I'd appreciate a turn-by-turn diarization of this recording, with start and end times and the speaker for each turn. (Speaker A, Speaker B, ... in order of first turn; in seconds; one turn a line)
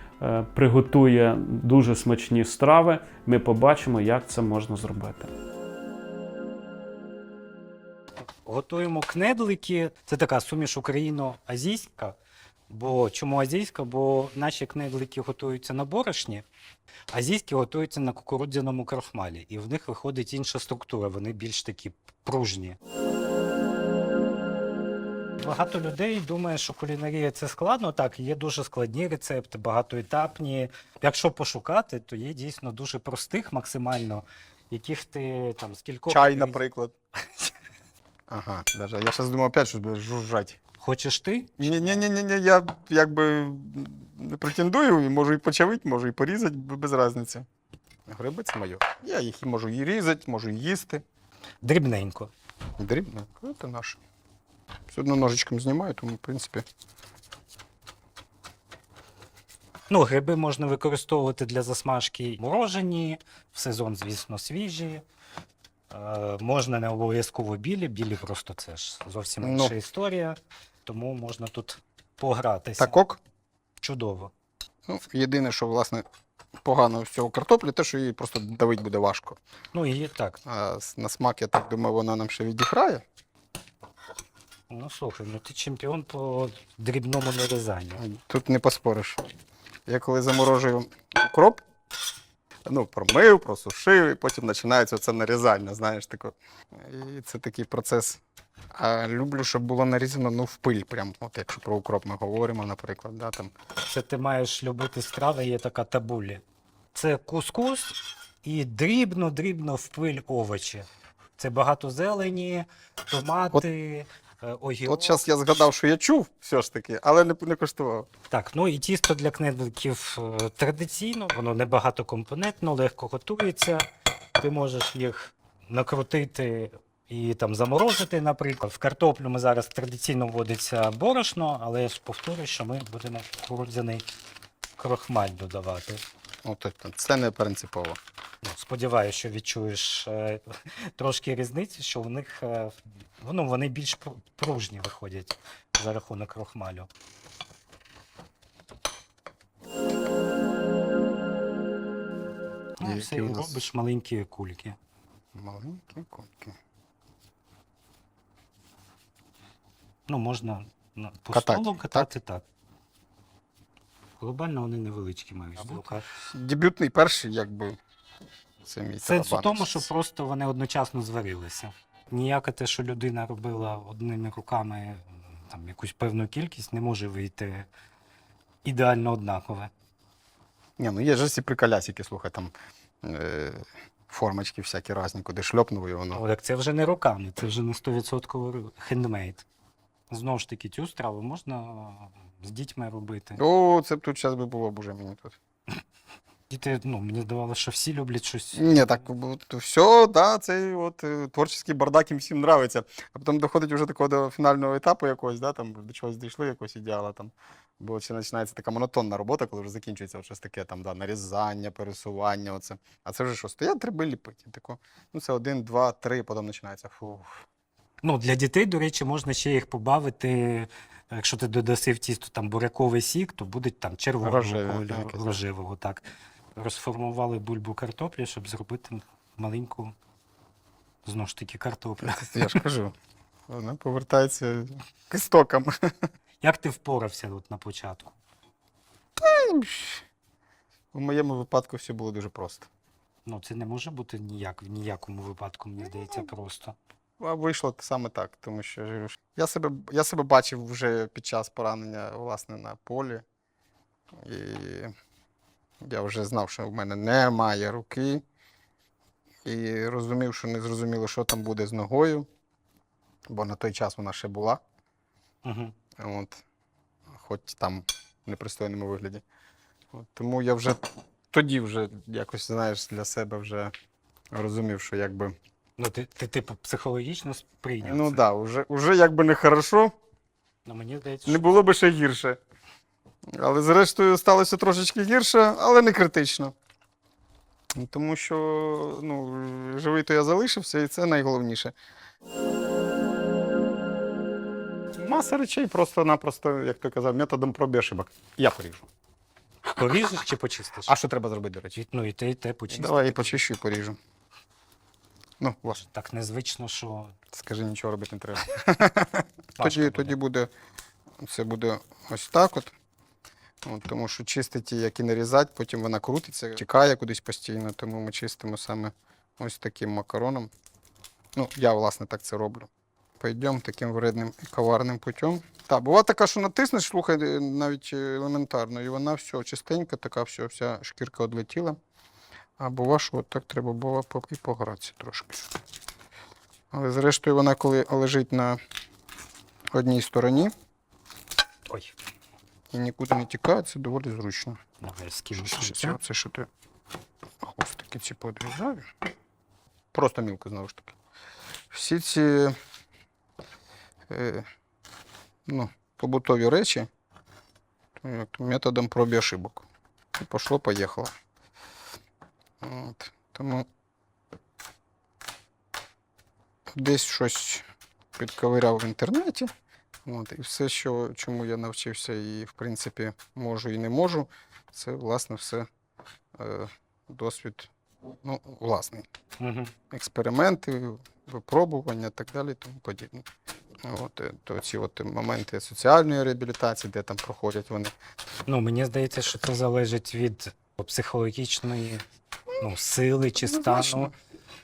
Speaker A: 0.2-5.3
Speaker B: 8.4-12.2
Speaker B: 12.7-16.4
Speaker B: 17.1-22.8
Speaker B: 25.4-36.6
Speaker C: 36.1-36.9
Speaker C: 38.3-40.6
Speaker B: 40.8-42.0
Speaker C: 41.6-47.5
Speaker C: 48.1-51.0
Speaker B: 51.6-52.3
Speaker C: 52.8-54.0
Speaker C: 54.9-56.6
Speaker B: 59.9-65.0
Speaker B: 65.9-73.0
Speaker C: 69.4-69.7
Speaker C: 72.8-73.2
Speaker B: 73.8-74.3
Speaker C: 74.9-76.0
Speaker C: 76.6-79.4
Speaker B: 79.7-80.4
Speaker C: 80.4-83.0
Speaker B: 84.7-88.0
Speaker C: 88.0-89.2
Speaker C: 89.9-91.6
Speaker C: 92.7-98.2
Speaker C: 98.7-103.5
Speaker B: 103.8-106.4
Speaker B: 106.9-110.9
Speaker B: 111.4-115.2
Speaker C: 114.8-118.1
Speaker B: 118.3-123.9
Speaker B: 124.4-134.1
Speaker B: 134.8-136.0
Speaker C: 136.4-138.0
Speaker B: 138.4-146.9
Speaker B: 152.8-154.8
Speaker C: 152.8-153.7
Speaker C: 155.3-156.6
Speaker B: 160.1-162.4
Speaker C: 161.3-162.1
Speaker B: 164.2-166.1
Speaker C: 166.3-167.8
Speaker C: 168.6-169.9
Speaker B: 169.0-177.7
Speaker B: 178.6-179.7
Speaker C: 180.8-186.2
Speaker B: 186.1-189.4
Speaker B: 190.1-193.4
Speaker C: 193.3-195.3
Speaker B: 196.5-199.0
Speaker C: 198.5-217.4
Speaker B: 218.0-226.0
Speaker C: 224.2-225.2
Speaker B: 226.6-229.9
Speaker B: 231.0-232.6
Speaker C: 232.0-232.9
Speaker C: 233.5-235.9
Speaker B: 236.4-238.1
Speaker C: 239.2-240.0
Speaker C: 240.9-242.7
Speaker B: 243.2-246.8
Speaker C: 247.2-253.2
Speaker C: 254.2-254.9
Speaker C: 255.8-258.2
Speaker C: 259.4-262.3
Speaker C: 263.3-264.6
Speaker B: 265.4-265.7
Speaker C: 266.0-266.4
Speaker C: 267.1-269.2
Speaker C: 269.9-273.7
Speaker C: 274.3-275.3
Speaker B: 275.8-278.2
Speaker C: 277.8-279.9
Speaker B: 280.6-281.5
Speaker C: 281.2-282.4
Speaker C: 283.3-286.5
Speaker C: 287.7-291.7
Speaker C: 295.0-298.9
Speaker B: 299.6-300.9
Speaker C: 300.9-301.8
Speaker B: 301.7-303.4
Speaker C: 302.7-304.0
Speaker C: 305.4-305.8
Speaker B: 305.7-307.1
Speaker C: 307.3-310.5
Speaker B: 309.6-310.1
Speaker C: 311.2-312.7
Speaker C: 313.6-320.5
Speaker C: 321.3-322.7
Speaker C: 323.2-331.8
Speaker C: 332.6-335.5
Speaker C: 336.7-338.6
Speaker C: 339.7-340.5
Speaker B: 341.7-341.9
Speaker C: 342.7-344.6
Speaker B: 344.8-346.0
Speaker C: 345.3-346.5
Speaker C: 347.4-348.9
Speaker C: 349.9-350.9
Speaker C: 351.7-352.5
Speaker C: 354.1-354.4
Speaker C: 355.4-356.9
Speaker C: 358.0-359.6
Speaker C: 360.2-361.1
Speaker C: 362.6-363.6
Speaker C: 366.7-367.6
Speaker C: 368.2-369.5
Speaker C: 370.0-375.7
Speaker C: 376.4-377.7
Speaker C: 378.2-379.1
Speaker B: 379.4-379.7
Speaker C: 379.9-383.2
Speaker C: 383.8-387.9
Speaker B: 388.4-392.0
Speaker B: 392.6-394.1
Speaker C: 393.4-394.1